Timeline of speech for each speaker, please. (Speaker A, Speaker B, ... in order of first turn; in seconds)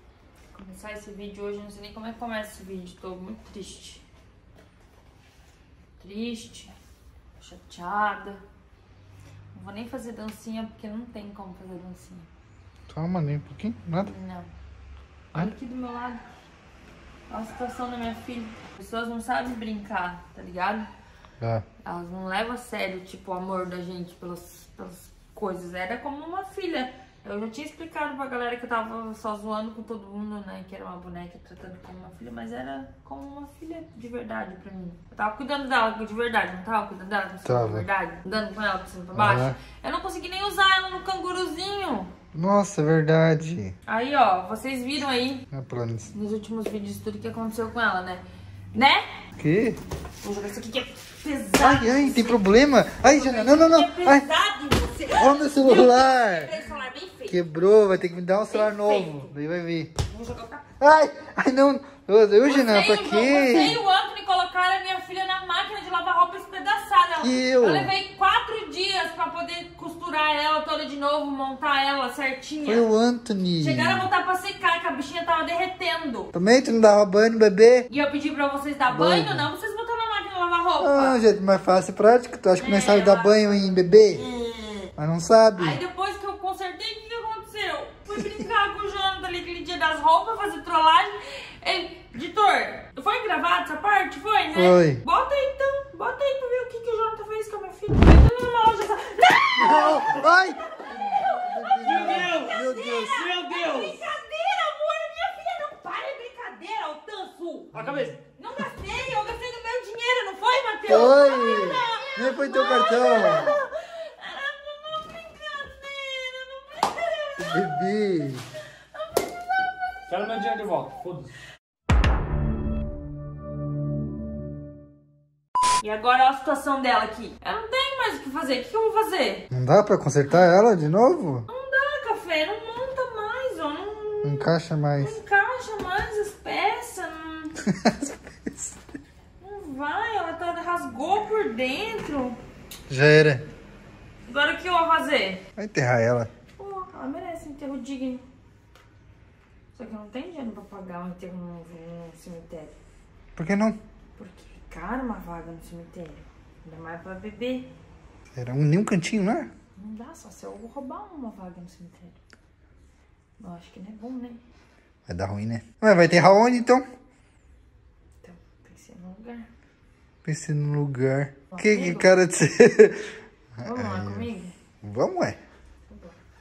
Speaker A: 0.5-4.0, 6.0-6.7, 7.4-8.4, 9.5-12.3, 14.0-14.5, 15.3-16.2, 17.3-20.9, 21.8-42.1, 43.9-45.4, 46.1-49.2, 50.2-57.4, 58.5-59.3, 60.1-60.7, 62.4-72.9, 73.6-76.3, 77.9-81.2, 82.6-83.3, 84.1-84.9, 85.5-107.7, 108.3-117.7, 118.9-120.0, 125.8-129.4, 131.5-134.4, 135.0-137.6, 139.4-142.4, 144.2-145.4, 146.6-148.2, 149.7-152.7, 154.2-157.7, 159.8-162.2, 163.4-164.4, 168.2-169.5, 171.5-172.2, 173.6-174.5, 175.9-176.2
Speaker B: 12.9-14.1, 37.4-37.8, 39.1-39.6, 42.3-43.7, 45.5-46.1, 49.4-49.8, 51.6-54.2, 55.1-56.6, 57.3-59.9, 60.8-63.8, 67.2-67.9, 72.6-74.1, 76.3-77.9, 78.9-79.5, 80.8-84.2, 85.0-85.8, 94.5-95.0, 99.6-103.2, 110.9-113.6, 117.4-118.4, 129.5-131.4, 134.2-135.1, 137.7-138.7, 142.9-143.4, 145.6-146.3, 153.3-153.8, 158.3-159.5, 165.1-166.8, 170.2-173.1, 173.6-174.2, 174.8-175.4
Speaker C: 101.8-104.0, 107.7-108.2, 120.1-121.3